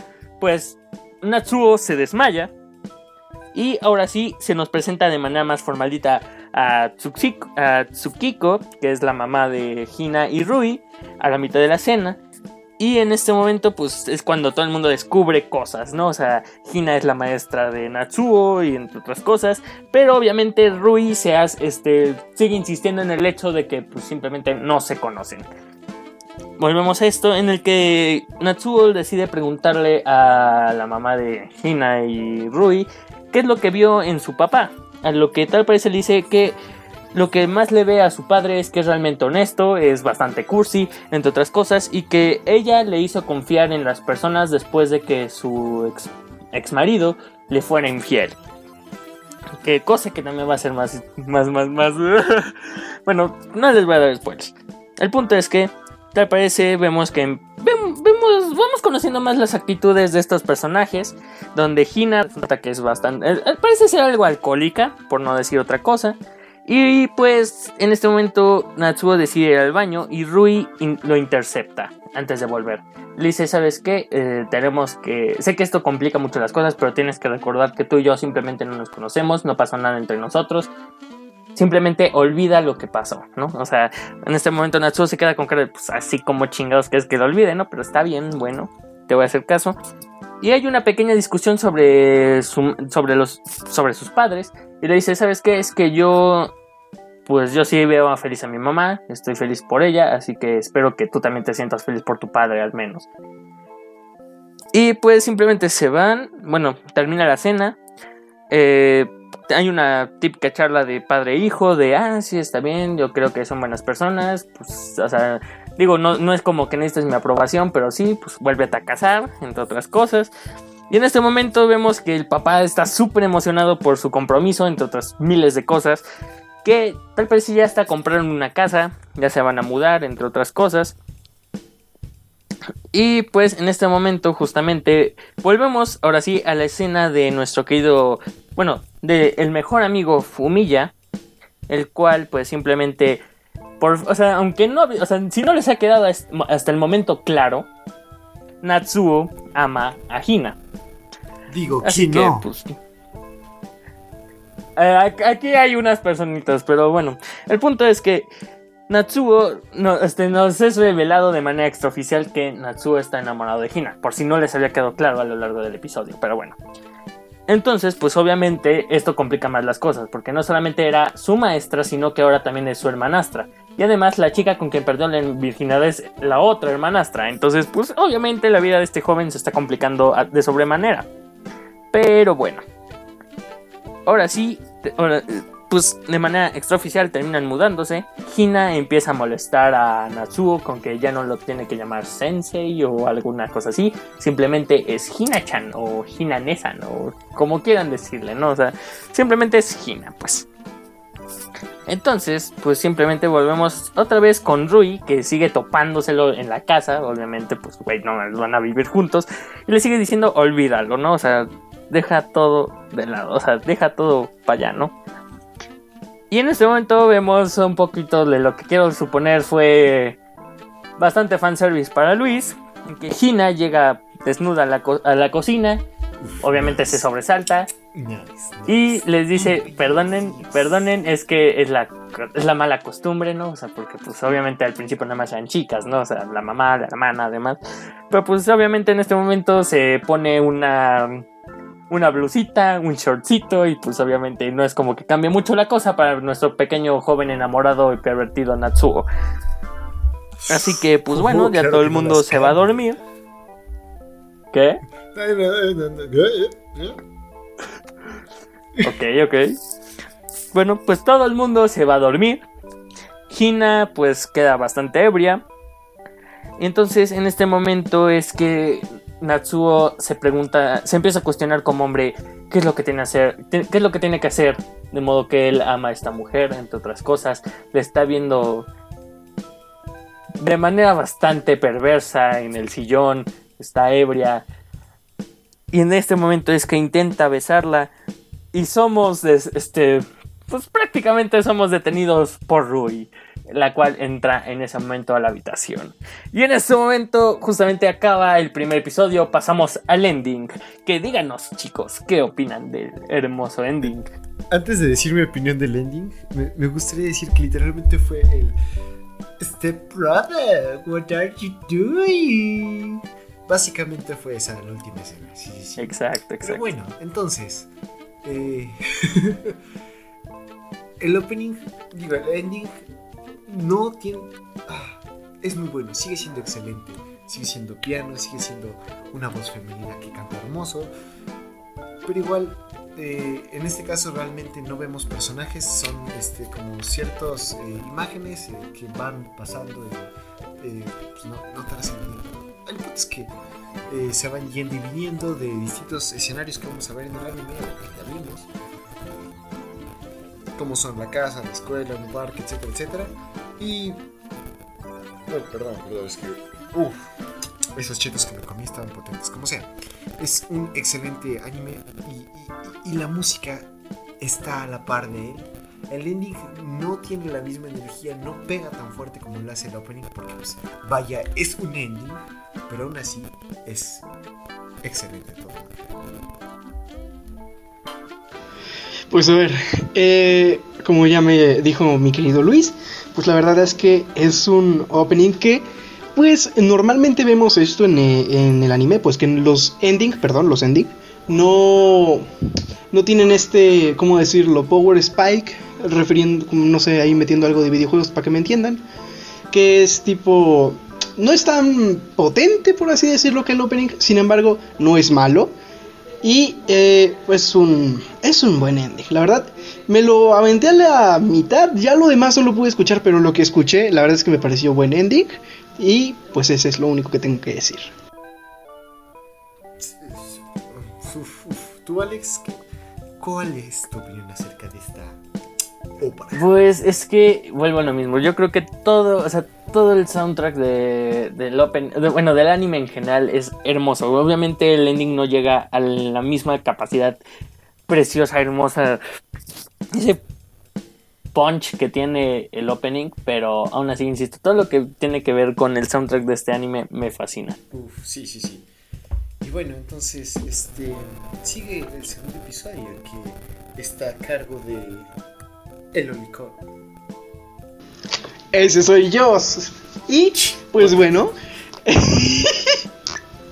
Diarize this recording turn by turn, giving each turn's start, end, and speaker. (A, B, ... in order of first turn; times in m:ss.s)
0:00.4-0:02.5 A
0:03.5-0:12.2 A
0:12.8-0:25.5 A
0:26.6-0:36.6 A
0:37.1-0:48.4 A
0:49.6-1:20.7 A
1:21.6-1:29.8 A
1:30.4-1:36.5 A
1:37.2-1:43.0 A
1:44.7-1:47.8 A
1:48.5-2:00.3 A
2:00.9-2:06.0 A
2:06.6-2:11.0 A
2:12.9-2:20.9 A
2:21.7-2:23.2 A
2:23.8-2:27.7 A
2:28.6-2:30.6 A
2:31.5-2:32.5 B
2:31.8-2:32.8 A
2:34.8-2:38.3 A
2:38.9-2:46.6 A
2:47.5-3:01.1 A
3:01.9-3:02.6 A
3:04.0-3:20.5 A
3:21.9-3:34.9 A
3:36.3-3:40.2 A
3:41.0-3:45.8 A
3:46.2-3:47.0 B
3:46.4-3:47.7 A
3:47.9-3:50.8 B
3:48.7-3:57.6 A
3:58.1-4:01.2 A
4:01.9-4:09.1 A
4:10.5-4:12.8 B
4:10.5-4:13.0 A
4:14.5-4:14.8 A
4:15.1-4:17.0 B
4:18.8-4:19.5 A
4:20.5-4:22.4 A
4:23.3-4:25.4 A
4:26.6-4:38.7 A
4:40.4-4:44.4 A
4:45.7-4:47.9 A
4:48.5-5:04.0 A
5:04.5-5:08.6 B
5:09.4-5:17.7 B
5:15.8-5:16.6 A
5:18.2-5:19.6 B
5:21.0-5:22.8 B
5:23.5-5:30.9 B
5:32.0-5:43.3 B
5:43.9-5:48.5 B
5:50.5-5:54.0 B
5:55.3-5:57.1 B
5:57.8-6:14.0 B
6:14.8-6:16.2 B
6:19.1-6:25.6 C
6:26.1-6:32.3 C
6:32.9-6:38.8 C
6:39.5-6:45.5 C
6:46.2-6:57.9 C
6:59.8-7:02.6 B
7:03.2-7:05.2 B
7:06.0-7:06.4 B
7:06.3-7:17.2 A
7:17.9-7:19.0 A
7:19.9-7:20.2 A
7:21.3-7:27.6 A
7:27.7-7:28.7 B
7:29.4-7:35.1 B
7:35.9-7:36.6 B
7:38.5-7:41.3 C
7:41.8-7:42.8 C